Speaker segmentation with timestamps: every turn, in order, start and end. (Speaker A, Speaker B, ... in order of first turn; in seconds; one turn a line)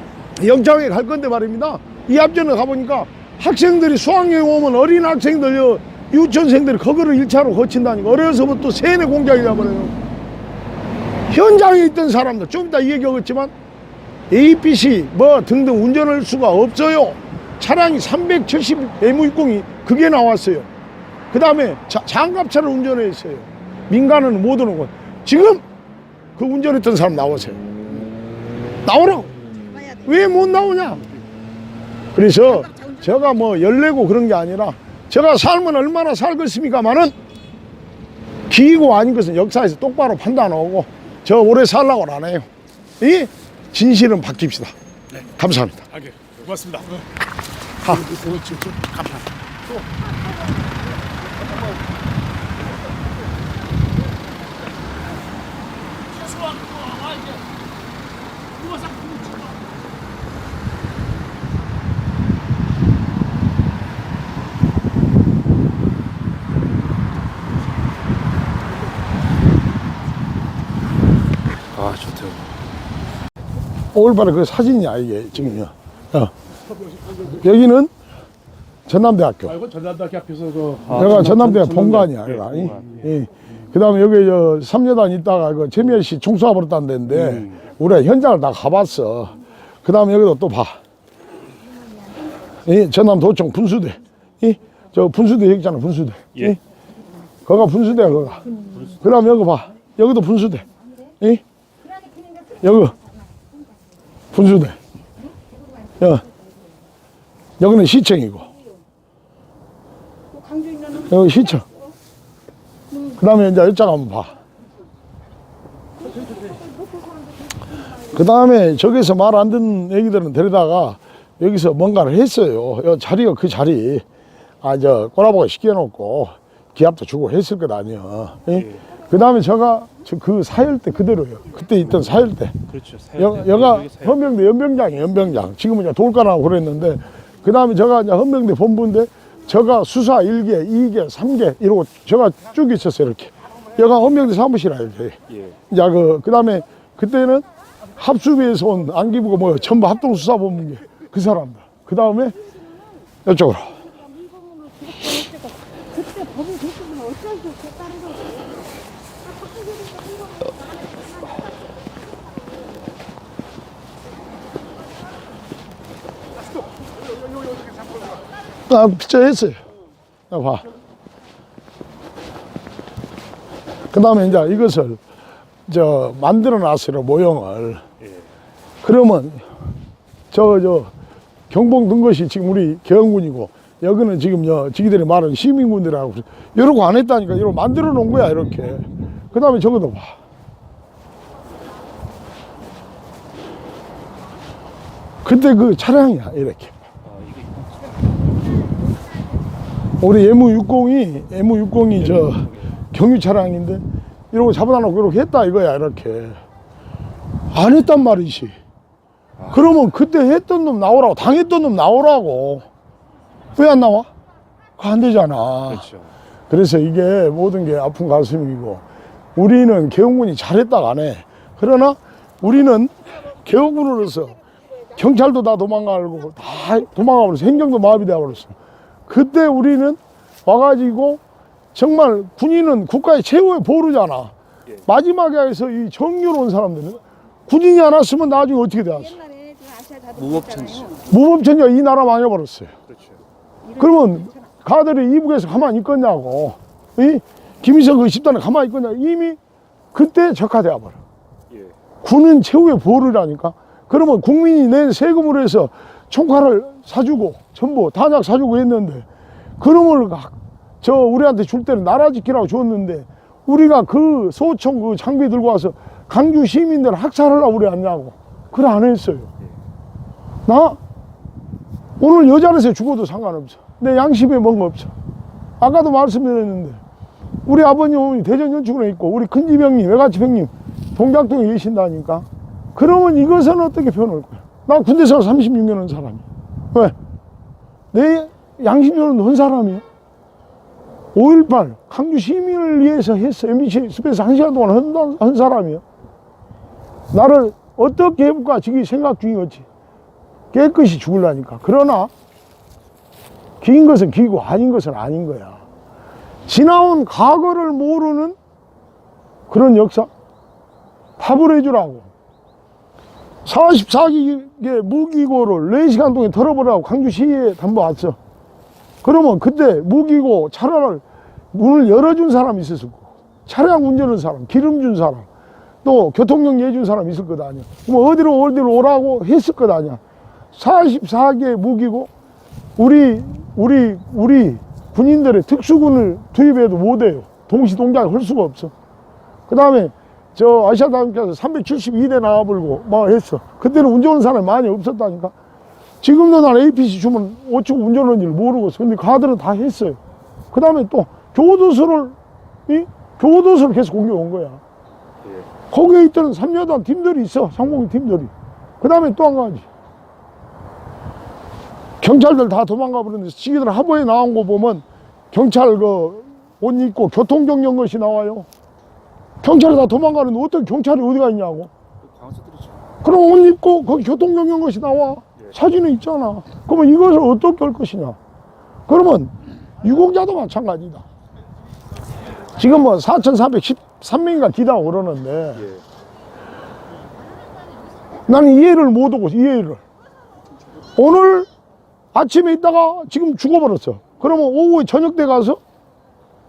Speaker A: 0.4-10.0
Speaker A: 11.3-13.5
Speaker A: 14.3-20.7
Speaker A: 21.3-25.6
Speaker A: 26.4-27.6
Speaker A: 28.9-29.4
Speaker B: 29.7-30.1
Speaker A: 30.0-31.0
Speaker A: 32.1-37.1
Speaker A: 38.5-42.5
Speaker A: 43.0-44.7
Speaker A: 45.3-45.9
Speaker C: 46.4-47.0
Speaker A: 47.8-48.3
Speaker C: 48.2-49.1
Speaker C: 71.7-72.5
Speaker A: 73.9-76.3
Speaker A: 77.2-77.9
Speaker A: 78.9-79.7
Speaker C: 79.7-81.9
Speaker A: 80.9-90.8
Speaker A: 92.5-96.6
Speaker A: 97.5-100.7
Speaker B: 101.9-102.5
Speaker A: 102.6-103.0
Speaker A: 104.3-104.8
Speaker A: 106.0-106.3
Speaker A: 107.6-108.5
Speaker B: 110.3-111.1
Speaker A: 111.0-111.7
Speaker A: 113.0-114.4
Speaker B: 116.0-117.3
Speaker A: 118.1-124.0
Speaker A: 124.6-145.2
Speaker C: 132.7-134.0
Speaker A: 145.7-147.4
Speaker A: 148.0-152.4
Speaker A: 153.2-153.8
Speaker B: 154.2-158.5
Speaker B: 159.4-160.8
Speaker A: 168.7-169.6
Speaker A: 170.3-170.7
Speaker A: 173.9-175.0
Speaker A: 175.7-177.8
Speaker A: 178.8-179.4
Speaker A: 180.3-180.9
Speaker A: 181.5-190.1
Speaker A: 195.2-196.8
Speaker A: 200.0-206.4
Speaker A: 207.5-208.6
Speaker A: 209.5-212.7
Speaker A: 213.6-214.1
Speaker A: 214.8-215.9
Speaker A: 216.5-218.8
Speaker A: 219.3-224.4
Speaker A: 224.9-228.6
Speaker A: 229.1-231.2
Speaker A: 231.7-234.3
Speaker A: 234.9-239.2
Speaker B: 239.2-241.0
Speaker C: 240.2-240.9
Speaker A: 241.1-242.7
Speaker C: 242.9-243.2
Speaker A: 243.7-249.4
Speaker A: 249.9-251.0
Speaker A: 252.0-259.1
Speaker A: 259.6-269.3
Speaker A: 270.5-270.8
Speaker A: 272.0-274.9
Speaker A: 275.6-276.8
Speaker A: 277.4-286.9
Speaker A: 287.9-289.8
Speaker A: 291.1-295.8
Speaker A: 297.1-299.7
Speaker A: 300.5-302.1
Speaker A: 303.6-305.6
Speaker A: 306.5-308.4
Speaker A: 309.5-310.1
Speaker A: 311.2-312.1
Speaker A: 313.4-318.2
Speaker A: 319.0-325.3
Speaker A: 325.8-330.0
Speaker A: 330.5-332.1
Speaker A: 332.8-338.7
Speaker A: 339.5-345.3
Speaker A: 346.0-350.0
Speaker A: 350.5-352.2
Speaker A: 352.7-354.6
Speaker A: 355.7-359.7
Speaker A: 362.0-368.5
Speaker A: 369.4-371.7
Speaker C: 372.1-372.8
Speaker A: 373.0-378.2
Speaker A: 378.9-381.0
Speaker A: 382.6-385.7
Speaker A: 388.2-389.8
Speaker A: 391.0-391.5
Speaker A: 392.1-395.6